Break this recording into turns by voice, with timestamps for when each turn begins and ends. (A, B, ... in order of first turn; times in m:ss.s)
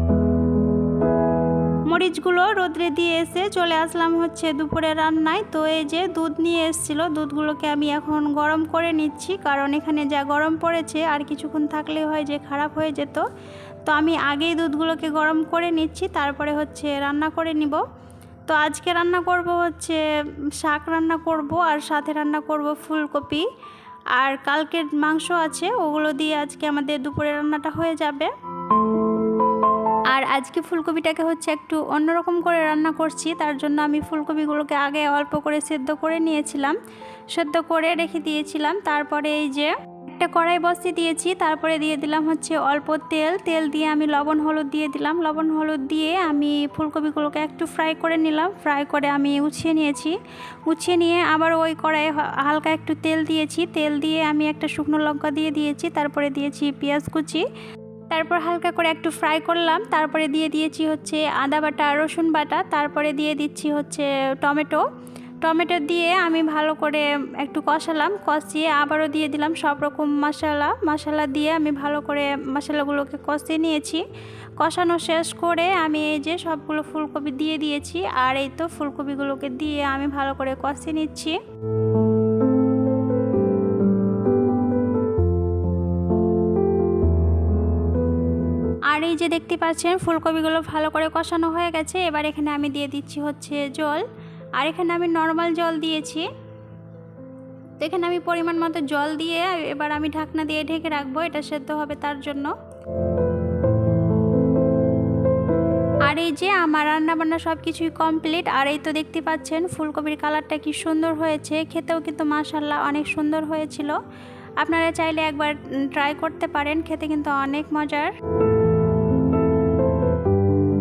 0:01.9-0:13.2 A
0:13.8-0:17.8 A
0:18.5-0:20.0 A
0:20.6-0:23.4 A
0:24.1-0:28.3 A
0:30.1-0:36.8 A
0:37.3-0:57.4 A
0:58.1-1:04.8 A
1:05.4-1:14.0 A
1:14.6-1:21.4 A
1:28.9-1:34.0 A
1:34.6-1:36.3 A
1:37.8-1:42.5 A
1:46.0-1:54.0 A
1:54.6-1:58.1 A